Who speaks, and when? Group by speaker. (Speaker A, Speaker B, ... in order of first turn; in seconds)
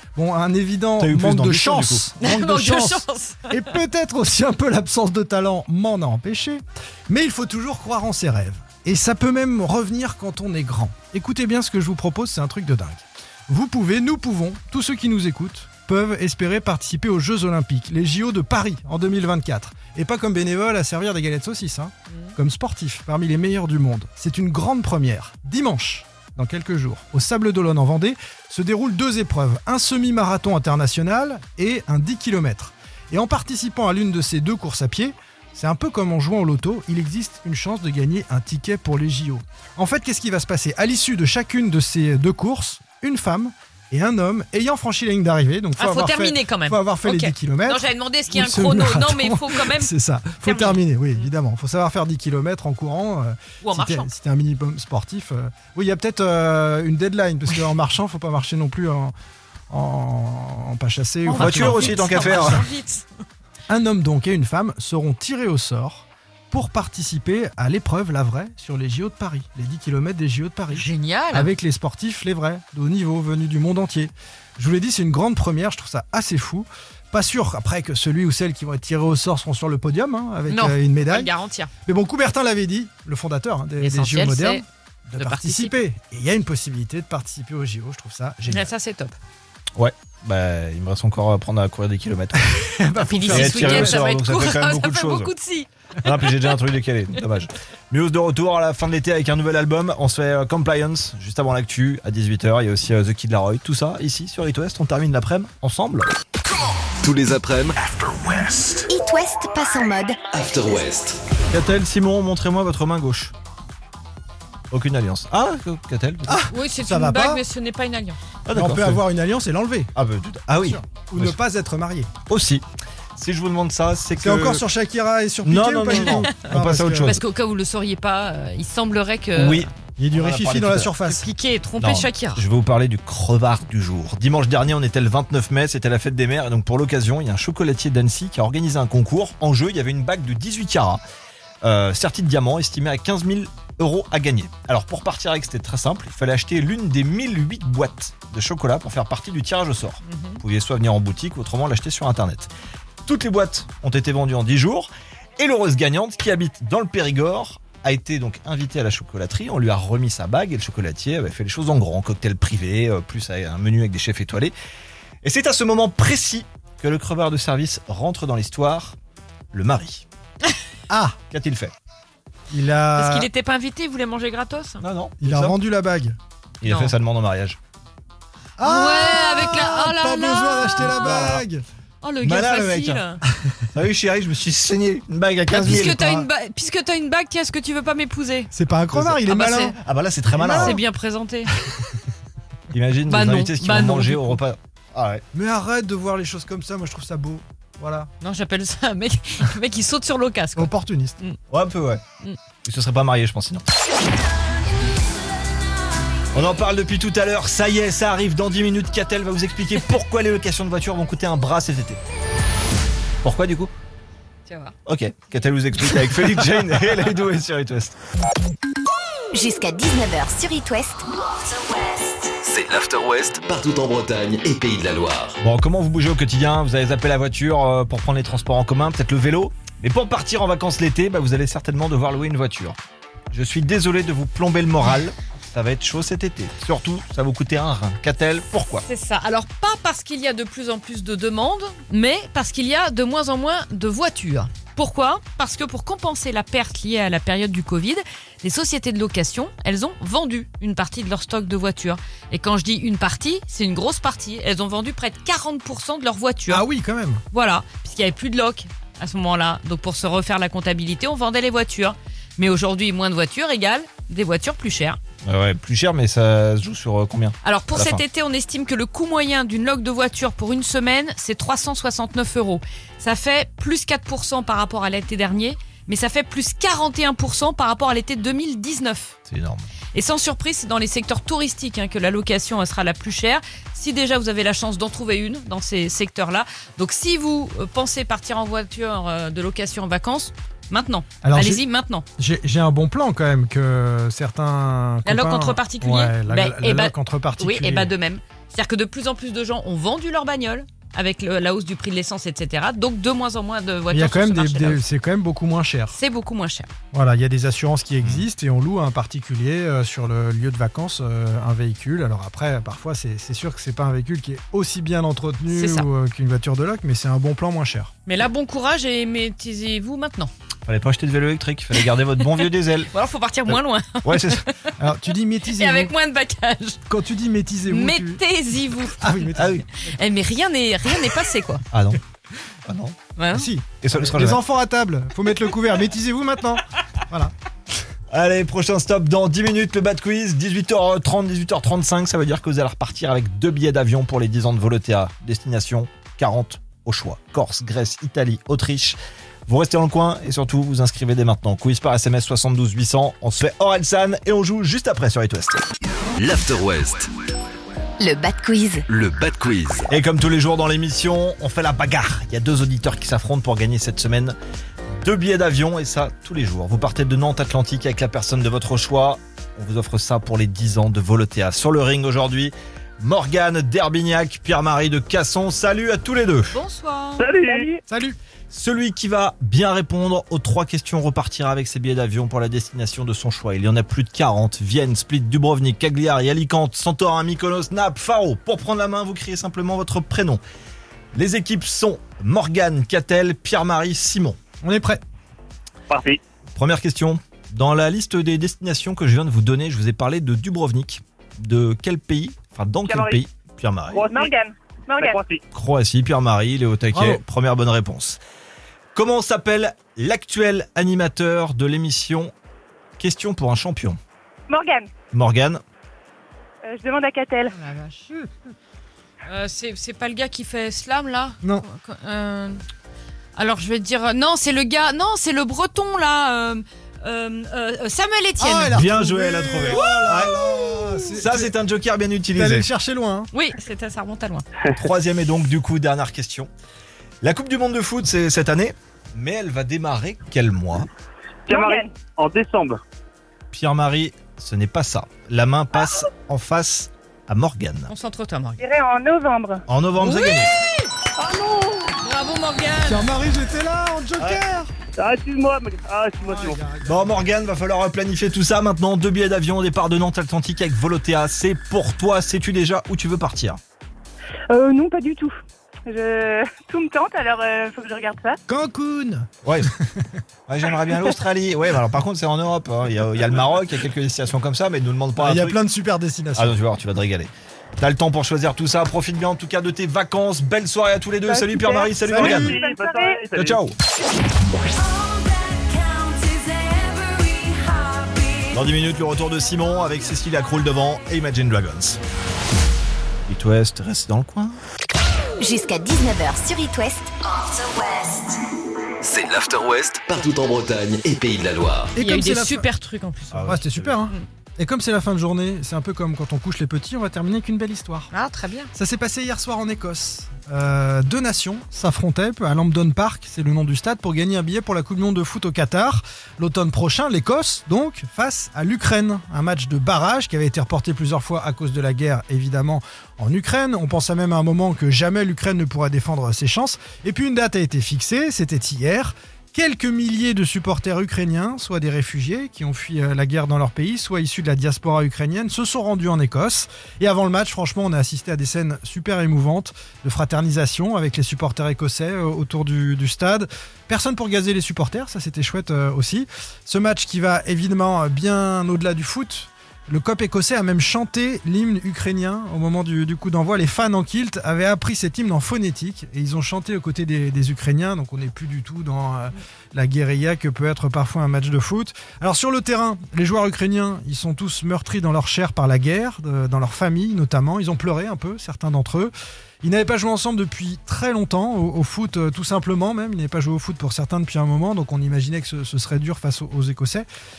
Speaker A: 0.2-59.1, 59.7-62.7, 63.7-81.3, 81.9-88.7, 92.3-94.1, 116.3-117.4, 118.5-119.9, 120.6-122.1, 124.2-127.2, 130.0-131.3, 170.9-171.2, 172.5-173.3, 175.2-176.2, 178.6-181.7, 185.7-186.3, 188.5-189.8, 190.4-190.8, 195.3-198.1, 200.6-201.2, 256.5-257.2, 291.2-291.6, 292.2-297.9, 303.9-306.0, 306.9-317.9, 324.8-325.9, 326.9-328.2, 329.0-329.6, 333.3-337.3, 377.9-378.2, 394.6-395.0, 406.9-407.2, 428.4-431.5, 432.4-433.3, 452.8-454.7, 456.2-457.3, 468.5-470.1, 475.2-476.6, 482.1-482.6, 501.9-502.7, 503.4-508.1, 508.7-577.1
Speaker B: 1.0-2.1, 61.4-62.6, 89.8-92.7, 93.3-95.3, 96.0-106.1, 111.5-113.3, 114.7-116.5, 118.5-119.0, 120.0-121.4, 122.3-122.6, 123.2-124.6, 125.4-127.2, 129.4-131.2, 131.8-141.0, 141.6-152.5, 153.1-164.5, 165.2-169.0, 169.5-170.1, 171.3-171.7, 174.8-175.6, 176.6-177.6, 180.9-181.4, 182.2-183.0, 183.7-186.0, 188.9-189.2, 189.8-190.8, 192.7-195.2, 201.5-202.0, 202.7-203.6, 206.3-212.0, 213.2-213.7, 214.9-218.0, 225.4-232.8, 233.3-238.8, 265.2-268.0, 279.3-279.7, 320.7-322.9, 323.5-324.5, 329.3-329.6, 331.7-332.0, 332.7-333.0, 333.8-334.4, 338.1-355.6, 359.9-364.4, 365.0-376.6, 378.5-390.4, 391.1-394.4, 396.6-404.0, 405.5-408.2, 408.9-412.3, 413.0-414.0, 415.1-415.6, 428.7-432.7, 434.7-436.5, 437.2-440.9, 443.5-447.9, 449.7-450.5, 456.9-463.6, 469.4-469.7, 470.5-475.6, 476.4-482.6, 483.4-483.8, 488.5-492.0, 493.3-494.6, 503.3-504.0
Speaker C: 2.4-3.4, 45.8-49.8, 61.3-63.0, 70.8-71.4, 80.5-81.7, 84.0-84.6, 85.3-85.7, 88.6-89.2, 93.1-95.7, 117.4-118.1, 127.1-129.6, 131.2-132.4, 150.2-150.4, 173.0-174.8, 176.7-176.9, 178.7-180.9, 182.0-183.2, 185.5-188.5, 190.4-191.5, 193.1-194.3, 198.2-200.6, 238.9-256.6, 257.3-265.0, 267.4-279.1, 279.9-292.1, 295.1-304.7, 306.0-306.7, 318.1-320.3, 322.9-324.5, 325.6-326.8, 327.8-329.0, 330.0-331.6, 333.2-333.4, 376.5-377.3, 417.6-418.1, 419.3-422.6, 423.4-428.6, 433.4-434.4, 447.9-448.6, 452.0-453.0, 502.4-503.3, 508.1-508.7
Speaker D: 107.0-107.8, 108.3-108.8, 110.3-111.2, 116.5-117.3, 222.2-225.4, 356.2-357.1, 358.9-359.9, 499.0-502.0
Speaker E: 108.9-110.2, 219.3-221.1, 358.0-358.9, 495.4-497.7
Speaker F: 377.2-377.7, 395.9-396.2, 403.9-404.3, 405.0-405.4, 441.5-442.8, 451.2-451.9, 455.0-456.6, 482.2-483.6
Speaker G: 377.4-377.8, 404.0-405.2, 414.5-414.9, 416.6-417.6, 441.5-441.9, 448.6-449.6, 464.5-465.3, 465.9-468.4, 481.2-483.3